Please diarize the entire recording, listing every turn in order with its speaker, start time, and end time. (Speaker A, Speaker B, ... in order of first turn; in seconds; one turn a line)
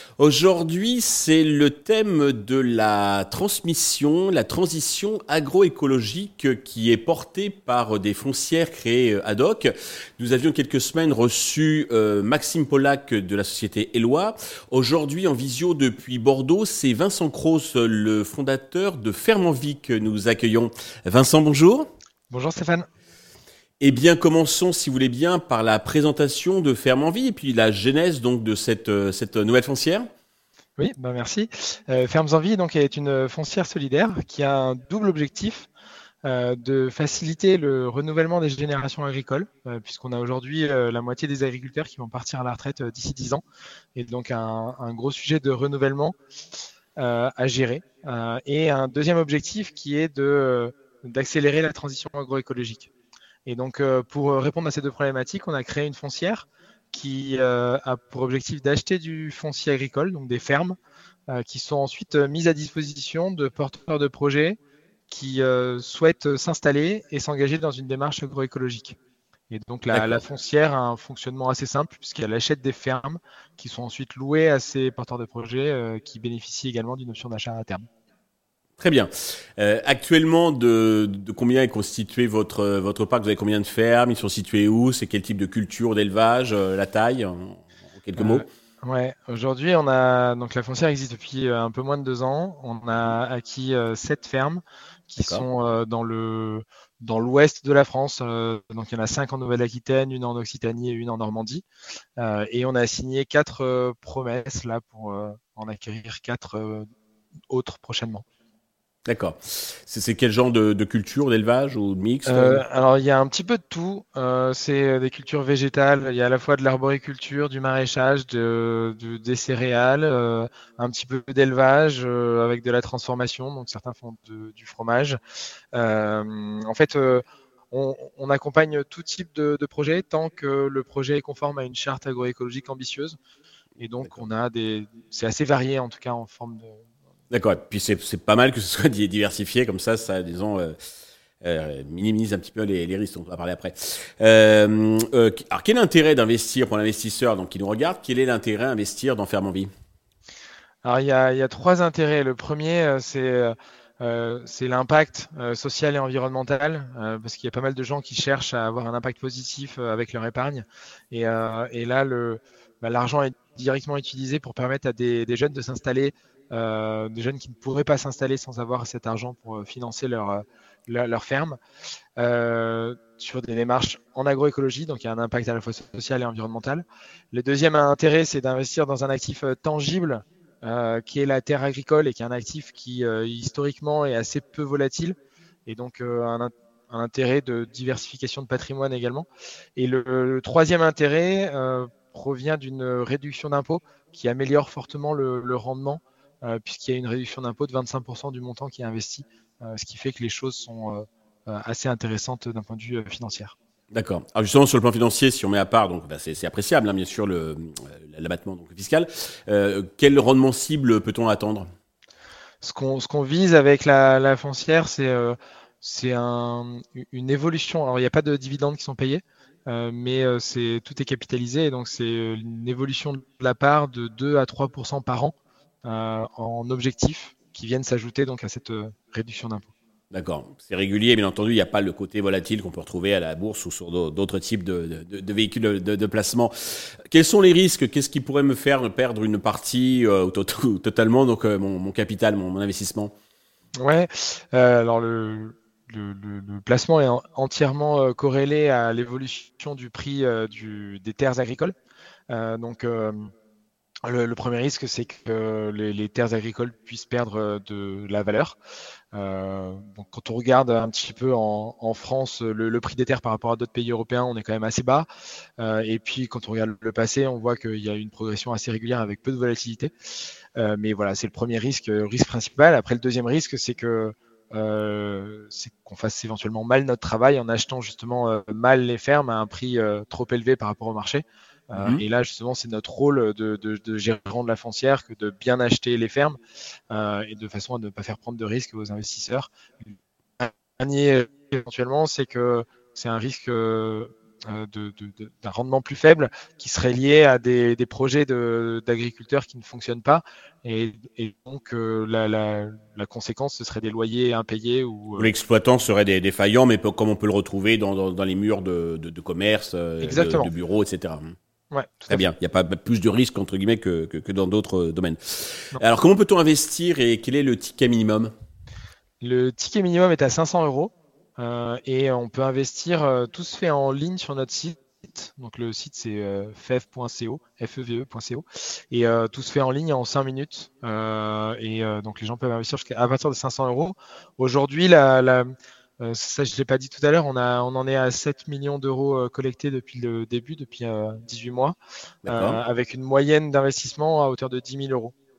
Speaker A: 0.2-21.9
Speaker B: 22.3-22.9
Speaker A: 23.8-30.1
Speaker B: 30.8-35.7
Speaker B: 36.2-43.4
Speaker B: 44.0-46.2
Speaker B: 47.0-52.9
Speaker B: 53.5-60.8
Speaker B: 61.3-69.0
Speaker B: 69.5-77.9
Speaker A: 69.9-70.2
Speaker A: 78.8-88.4
Speaker B: 88.2-101.7
Speaker B: 102.2-106.9
Speaker B: 107.5-108.2
Speaker A: 109.1-112.7
Speaker B: 112.3-125.2
Speaker B: 125.7-133.2
Speaker B: 133.8-136.8
Speaker A: 137.3-140.8
Speaker A: 141.4-149.7
Speaker B: 150.8-171.6
Speaker B: 172.2-203.6
Speaker A: 203.9-211.7
Speaker B: 212.6-229.7
Speaker A: 230.1-243.1
Speaker B: 243.8-251.7
Speaker B: 252.3-253.3
Speaker B: 254.1-258.6
Speaker B: 259.1-265.1
Speaker B: 265.6-269.9
Speaker B: 270.6-286.4
Speaker A: 281.8-282.0
Speaker B: 286.9-305.3
Speaker A: 305.2-311.4
Speaker B: 310.0-310.5
Speaker B: 311.7-312.2
Speaker A: 312.1-318.3
Speaker B: 319.2-341.8
Speaker A: 342.3-342.6
Speaker B: 342.3-345.1